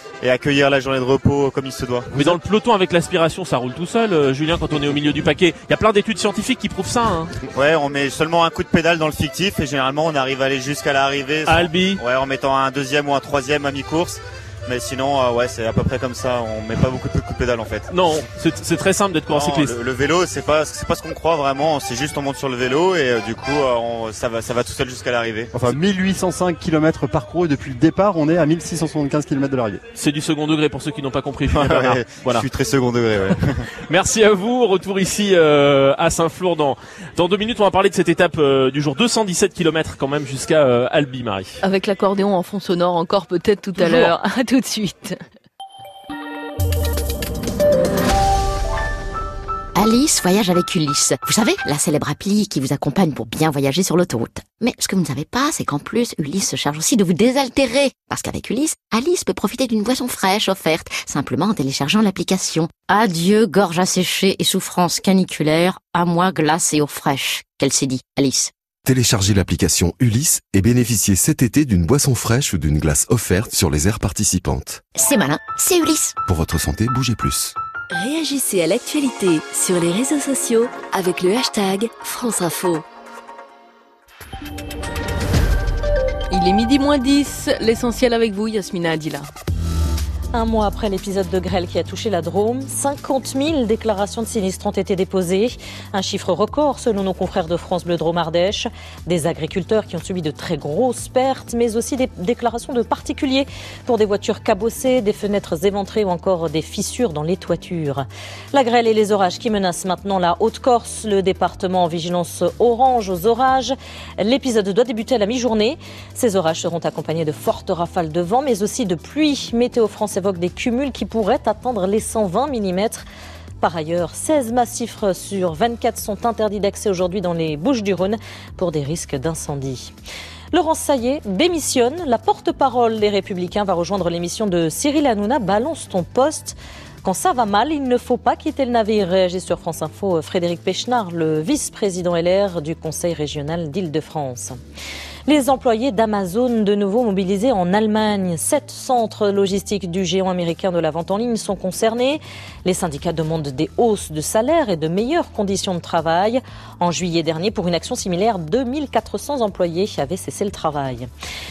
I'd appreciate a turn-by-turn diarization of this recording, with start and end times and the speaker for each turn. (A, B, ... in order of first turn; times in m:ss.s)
0:00.2-0:02.4 A
0:02.1-0:07.3 B
0:07.5-0:17.9 A
0:11.5-0:12.0 B
0:17.9-0:19.8 B
0:19.3-0:25.5 A
0:25.5-0:29.8 C
0:30.0-0:32.5 B
0:31.5-0:33.6 A
0:33.9-0:41.6 B
0:41.6-0:45.2 D
0:43.9-0:44.1 B
0:49.8-1:08.5 E
1:08.8-1:14.8 F
1:15.0-1:16.1 E
1:16.3-1:17.5 F
1:17.9-1:22.8 G
1:26.3-1:29.3 D
1:30.3-2:03.0 H
2:03.6-2:09.9 H
2:10.5-2:24.6 H
2:25.3-2:41.1 H